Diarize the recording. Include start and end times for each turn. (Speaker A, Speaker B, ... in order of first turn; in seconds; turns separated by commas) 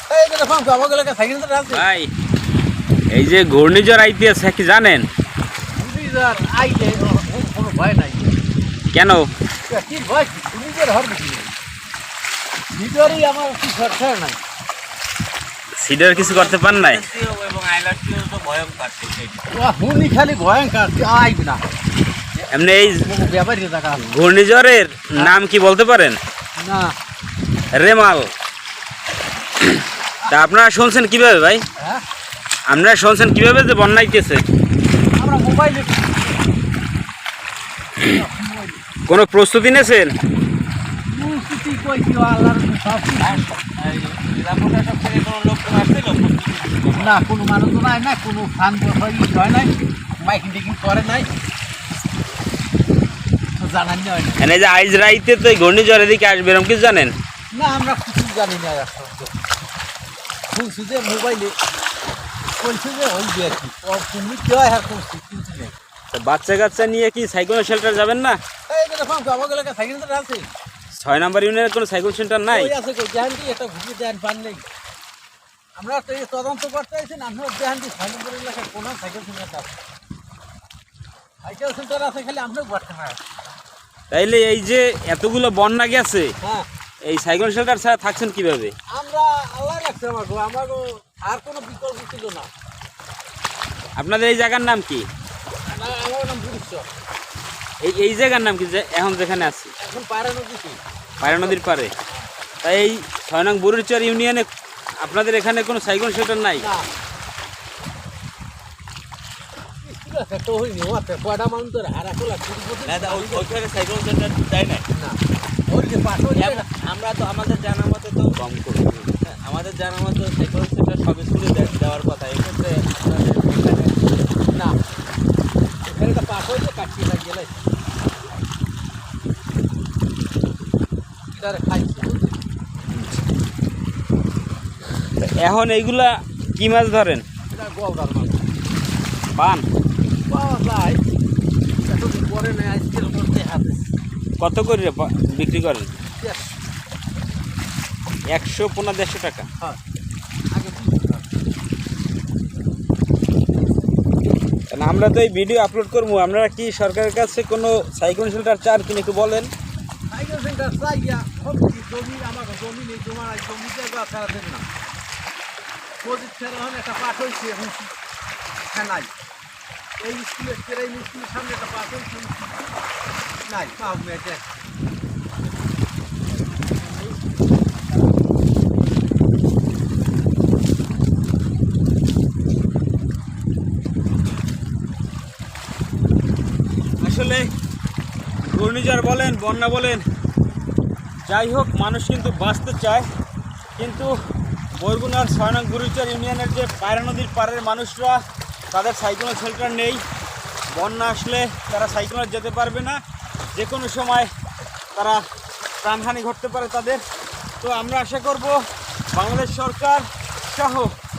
Speaker A: 0.1-1.9, Speaker B: 1.7-2.1, Speaker B: 3.1-5.0, Speaker A: 5.8-8.4, Speaker B: 8.9-9.3, Speaker A: 9.7-11.5, Speaker A: 12.7-14.4, Speaker B: 15.8-17.0, Speaker C: 16.1-19.5, Speaker A: 19.5-21.6, Speaker A: 22.4-24.1, Speaker B: 22.5-23.0, Speaker B: 24.0-26.2, Speaker A: 26.6-26.9, Speaker B: 27.7-28.3, Speaker B: 30.3-31.6, Speaker A: 31.8-32.0, Speaker B: 32.7-34.4, Speaker A: 35.2-36.4, Speaker A: 38.0-38.8, Speaker B: 39.1-40.1, Speaker A: 41.1-43.5, Speaker C: 43.2-47.2, Speaker A: 46.9-51.3, Speaker A: 53.6-54.5, Speaker B: 54.4-57.1, Speaker A: 57.5-59.3, Speaker A: 60.5-61.5, Speaker A: 62.6-65.7, Speaker B: 66.1-68.4, Speaker A: 68.7-70.5, Speaker B: 70.9-72.7, Speaker A: 72.5-74.6, Speaker A: 75.8-79.8, Speaker A: 81.4-83.2, Speaker B: 84.1-86.3, Speaker A: 86.4-86.7, Speaker B: 87.0-88.7, Speaker A: 88.9-92.5, Speaker B: 94.0-95.1, Speaker A: 95.7-96.9, Speaker B: 97.8-99.7, Speaker A: 99.8-102.3, Speaker B: 101.2-101.9, Speaker B: 102.6-104.5, Speaker B: 105.0-106.7, Speaker A: 106.6-106.9, Speaker A: 109.8-113.5, Speaker C: 112.8-114.8, Speaker A: 114.9-115.2, Speaker A: 115.7-116.7, Speaker C: 116.3-118.4, Speaker B: 118.4-119.0, Speaker C: 119.1-124.0, Speaker A: 125.8-127.6, Speaker A: 131.3-132.4, Speaker B: 135.2-137.2, Speaker A: 137.5-138.4, Speaker B: 139.3-139.6, Speaker A: 140.3-141.0, Speaker A: 141.8-143.9, Speaker B: 144.4-145.9, Speaker A: 146.2-146.6, Speaker B: 148.3-149.5, Speaker A: 150.5-151.3, Speaker B: 154.7-159.5, Speaker A: 160.1-164.6, Speaker A: 166.0-167.9, Speaker A: 168.7-169.1, Speaker A: 170.0-172.6, Speaker A: 173.5-174.5, Speaker B: 187.0-187.5, Speaker B: 188.5-190.0, Speaker B: 191.3-193.1, Speaker B: 193.8-194.1, Speaker B: 194.8-198.2, Speaker B: 198.7-200.0, Speaker B: 200.7-203.0, Speaker B: 203.5-204.3, Speaker B: 204.9-205.2, Speaker B: 205.8-207.0, Speaker B: 207.6-208.6, Speaker B: 209.1-210.9